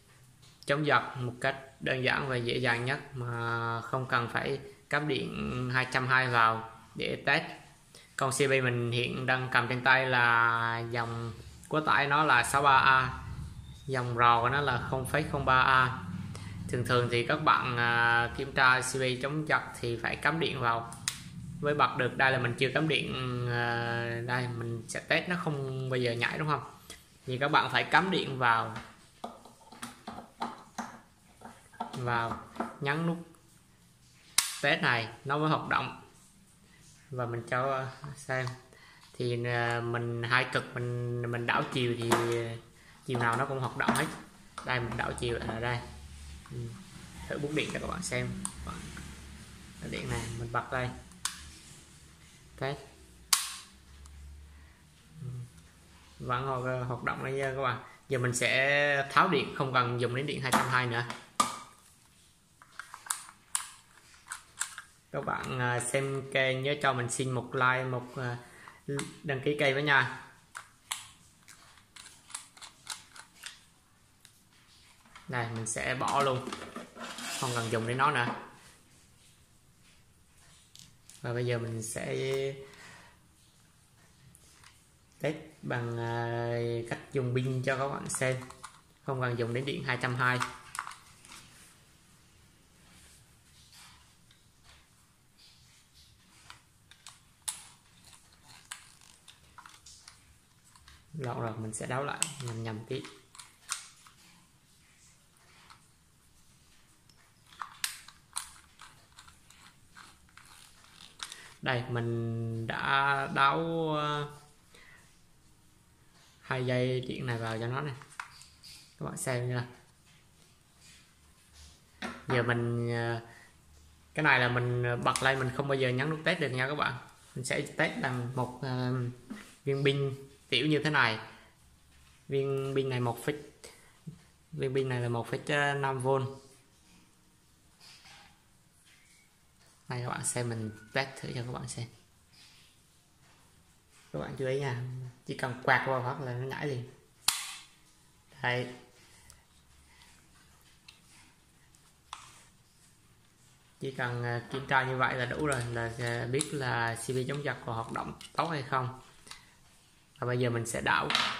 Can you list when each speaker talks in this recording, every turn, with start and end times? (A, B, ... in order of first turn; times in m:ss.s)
0:00.6-0:07.6 A
0:08.2-0:13.2 A
0:13.9-0:16.0 A
0:16.7-0:20.8 A
0:21.6-0:26.7 A
0:27.2-0:28.8 A
0:31.9-0:33.2 A
0:34.6-0:36.0 A
0:37.1-0:38.5 A
0:39.1-0:44.1 A
0:44.6-0:45.8 A
0:46.5-0:49.0 A
0:49.8-0:50.9 A
0:55.2-0:55.4 A
0:56.2-1:01.1 A
1:05.1-1:10.1 A
1:15.3-1:16.4 A
1:17.4-1:18.3 A
1:21.2-1:22.6 A
1:25.2-1:28.5 A
1:29.0-1:30.4 A
1:41.2-1:43.1 A
1:51.6-1:54.3 A
1:56.4-1:58.0 A
1:59.0-1:59.7 A
2:02.3-2:03.2 A
2:04.1-2:11.2 A
2:12.3-2:13.5 A
2:14.5-2:16.3 A
2:19.9-2:21.9 A
2:24.1-2:26.9 A
2:28.3-2:28.7 A
2:33.8-2:38.9 A
2:40.2-2:41.2 A